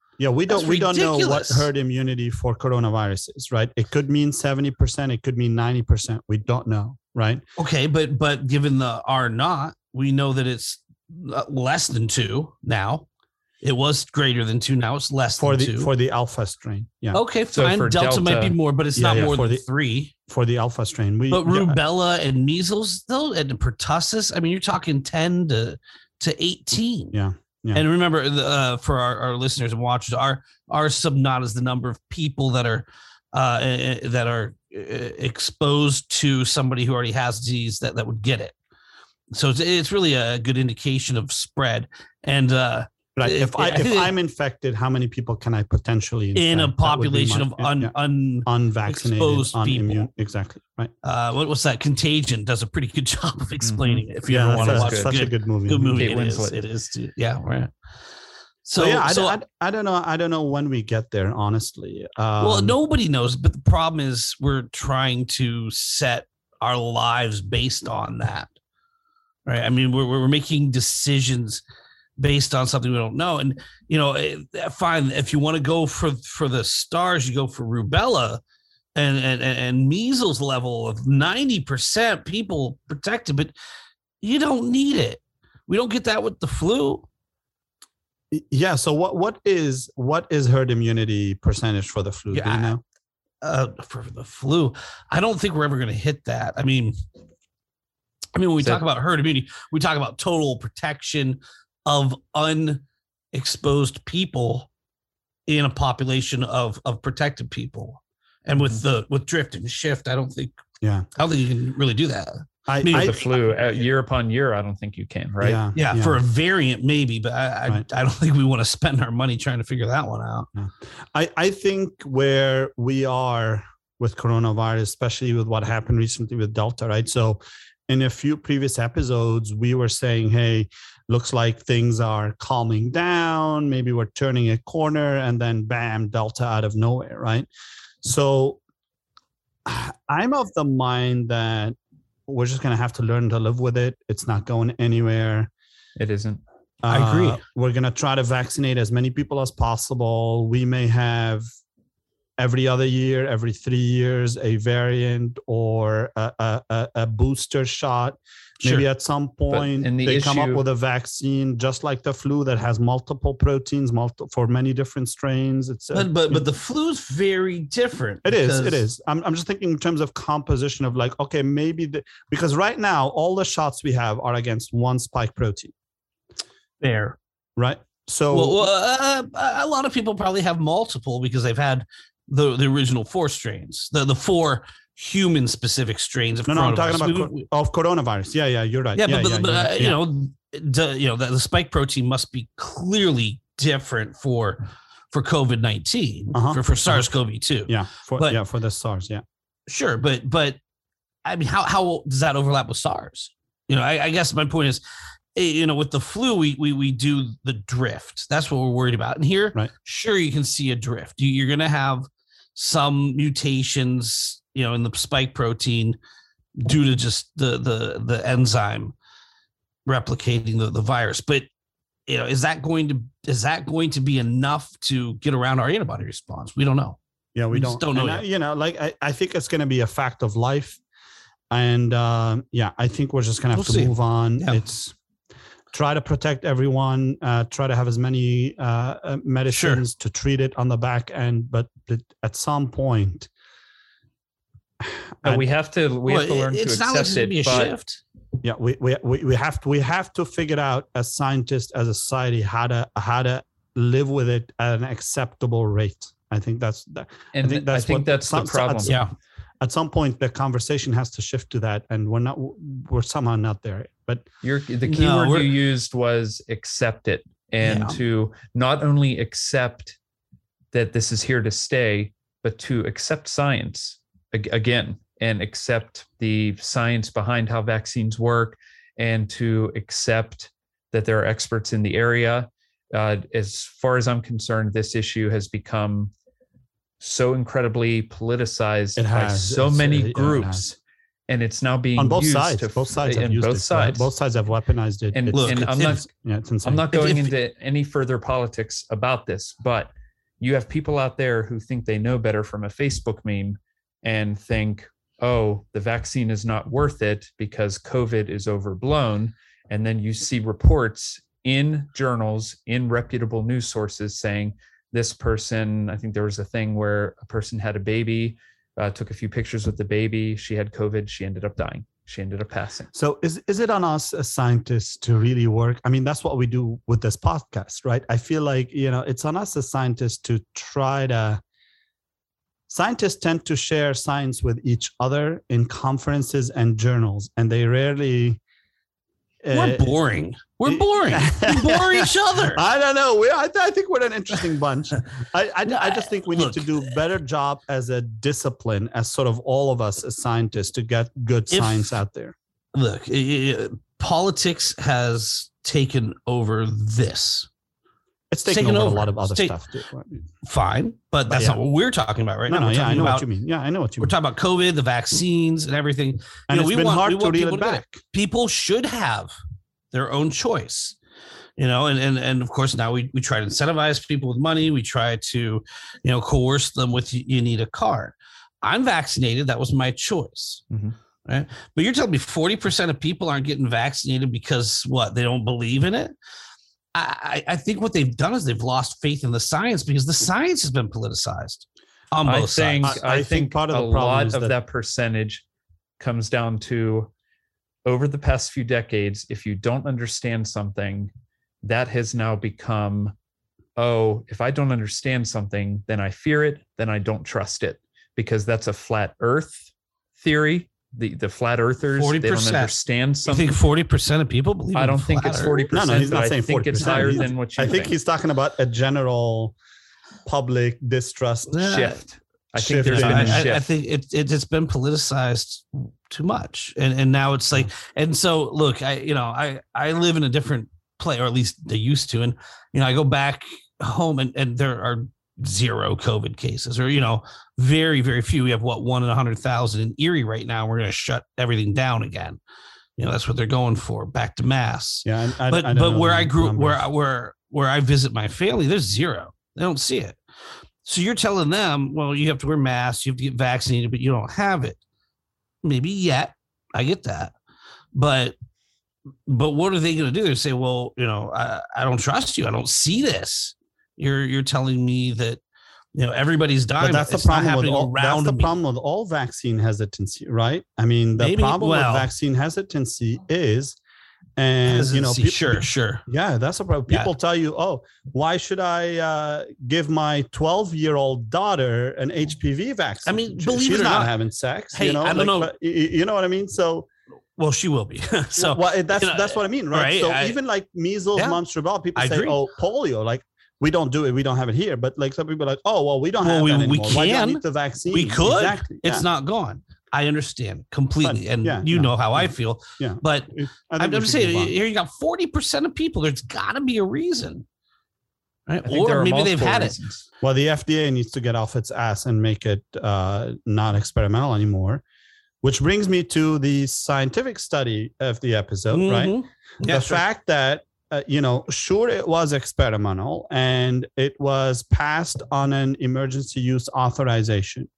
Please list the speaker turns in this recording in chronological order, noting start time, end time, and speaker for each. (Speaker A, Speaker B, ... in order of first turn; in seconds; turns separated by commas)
Speaker A: 0.2-7.4, Speaker B: 0.5-1.7, Speaker B: 7.6-13.1, Speaker B: 13.6-15.9, Speaker A: 15.4-17.2, Speaker B: 17.1-20.1, Speaker C: 17.5-18.6, Speaker A: 19.0-19.7, Speaker A: 20.3-21.8, Speaker B: 21.3-27.2, Speaker A: 27.1-27.8, Speaker B: 27.7-38.5, Speaker B: 39.3-44.1, Speaker A: 43.2-47.9, Speaker B: 46.4-50.1, Speaker A: 48.5-50.9, Speaker B: 51.0-57.7, Speaker C: 53.6-55.2, Speaker A: 54.3-56.0, Speaker C: 56.0-56.6, Speaker B: 58.6-59.4, Speaker A: 58.8-62.8, Speaker B: 62.4-68.5, Speaker B: 69.5-71.6, Speaker B: 72.2-78.4, Speaker B: 79.0-83.5, Speaker B: 84.2-87.1, Speaker A: 88.3-92.8, Speaker B: 92.3-92.8, Speaker B: 93.4-97.0, Speaker B: 98.3-104.7, Speaker B: 105.5-110.6, Speaker B: 111.2-113.2, Speaker A: 112.7-113.2, Speaker C: 112.9-115.7, Speaker A: 115.4-116.2, Speaker B: 115.8-120.5, Speaker A: 120.6-137.5, Speaker A: 138.0-138.6, Speaker A: 139.7-141.8, Speaker A: 142.3-145.5, Speaker C: 146.0-146.4, Speaker A: 146.8-151.4, Speaker B: 146.9-147.4, Speaker A: 152.4-166.5, Speaker C: 159.5-160.6, Speaker B: 165.9-168.8, Speaker A: 168.2-175.7, Speaker B: 176.8-177.2, Speaker A: 177.6-178.6, Speaker B: 178.3-187.5, Speaker A: 186.5-190.0, Speaker B: 189.0-198.4, Speaker A: 196.3-197.1, Speaker A: 197.7-199.2, Speaker B: 199.7-200.6, Speaker B: 201.2-204.8, Speaker B: 205.4-216.0, Speaker B: 216.6-218.9, Speaker B: 219.9-221.5, Speaker B: 222.1-227.0, Speaker A: 227.3-230.8, Speaker B: 227.5-228.2, Speaker A: 231.5-235.0, Speaker B: 233.6-234.6, Speaker A: 235.7-243.3, Speaker B: 239.5-239.8, Speaker A: 244.8-245.4, Speaker C: 245.2-247.7, Speaker B: 246.1-248.0, Speaker A: 248.4-259.0, Speaker C: 257.3-259.0, Speaker B: 258.9-259.1, Speaker A: 259.6-264.3, Speaker C: 264.4-270.0, Speaker B: 264.9-265.5, Speaker B: 267.6-268.0, Speaker C: 270.7-286.1, Speaker C: 287.0-290.7, Speaker A: 289.0-290.7, Speaker C: 291.3-294.1, Speaker A: 292.0-296.9, Speaker C: 295.1-296.1, Speaker B: 295.3-296.0, Speaker C: 296.6-322.9, Speaker B: 296.9-297.3, Speaker A: 322.9-331.4, Speaker A: 332.7-338.4, Speaker A: 339.4-339.9, Speaker B: 339.5-342.6, Speaker A: 340.7-352.4, Speaker B: 345.7-346.9, Speaker B: 351.5-352.0, Speaker B: 352.7-357.5, Speaker A: 358.3-360.2, Speaker B: 358.5-359.6, Speaker B: 360.4-363.3, Speaker A: 361.3-361.6, Speaker A: 362.5-364.1, Speaker B: 364.0-369.3, Speaker A: 366.5-368.0, Speaker B: 369.9-371.0, Speaker B: 371.6-380.6, Speaker C: 380.7-381.0, Speaker B: 381.3-386.1, Speaker B: 386.9-393.0, Speaker C: 392.2-395.4, Speaker A: 392.8-394.5, Speaker C: 396.0-397.1, Speaker C: 397.9-401.1, Speaker C: 401.6-403.1, Speaker C: 403.8-413.6, Speaker B: 412.0-412.7, Speaker B: 413.3-415.6, Speaker C: 414.8-418.0, Speaker A: 415.7-419.6, Speaker A: 420.2-421.7, Speaker B: 421.5-422.0, Speaker C: 421.6-423.7, Speaker A: 422.6-423.5, Speaker B: 422.9-442.4, Speaker B: 443.0-450.2, Speaker A: 445.1-446.8, Speaker B: 450.8-454.8, Speaker B: 455.6-457.3, Speaker B: 457.9-458.4, Speaker B: 459.3-465.4, Speaker B: 465.9-468.6, Speaker A: 466.8-473.8, Speaker B: 471.2-472.1, Speaker A: 474.4-486.9, Speaker B: 474.6-476.0, Speaker B: 483.1-484.1, Speaker B: 484.7-485.5, Speaker B: 487.4-490.4, Speaker A: 488.4-499.1, Speaker B: 492.0-492.4, Speaker B: 496.2-507.5, Speaker A: 501.0-504.5, Speaker B: 508.5-509.8, Speaker C: 508.6-510.1, Speaker A: 510.2-514.8, Speaker A: 515.4-519.1, Speaker B: 518.7-520.0, Speaker A: 519.7-527.7